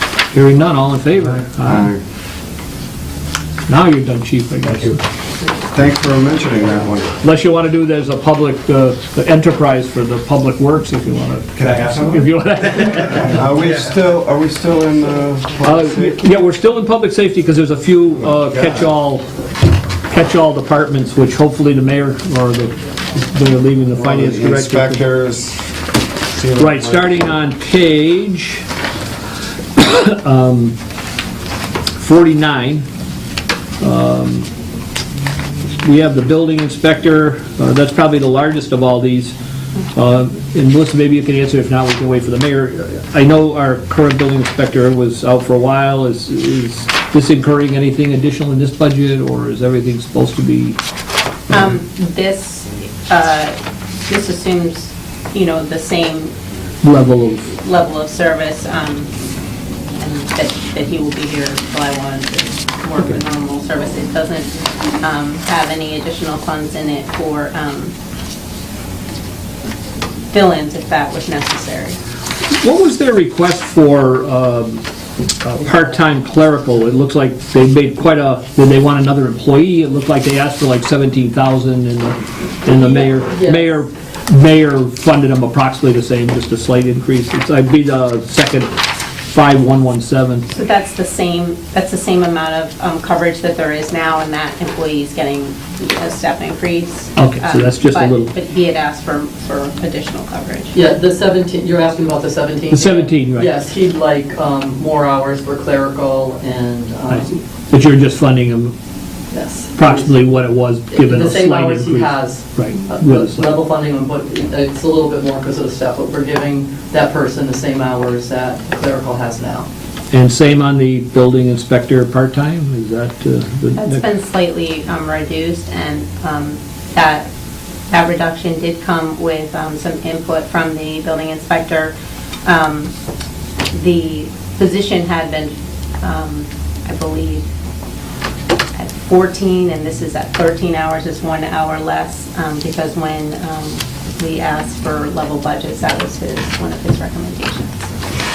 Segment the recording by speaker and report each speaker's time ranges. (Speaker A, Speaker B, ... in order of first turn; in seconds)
Speaker A: 0.3-1.9, 3.7-5.0, 7.2-13.4, 15.6-19.3, 20.0-25.0, 26.6-28.7, 29.8-30.8, 32.0-32.9, 33.8-34.5, 35.8-39.3, 39.9-50.8, 56.8-57.5, 72.5-74.8, 75.4-88.7, 89.2-90.5, 97.2-98.3, 102.7-103.5, 107.1-108.7, 109.8-113.5, 120.1-124.0
Speaker B: 1.6-2.0, 5.7-7.1, 11.6-12.3, 13.2-16.2, 23.9-25.8, 26.3-27.2
Speaker C: 51.5-56.4, 57.6-59.1, 59.9-67.9, 70.3-72.0, 90.5-100.8, 123.8-127.3, 127.9-131.9, 132.4-132.9, 133.7-137.4, 138.8-147.9
Speaker D: 82.7-83.7, 100.7-107.4, 109.3-110.3, 110.9-119.7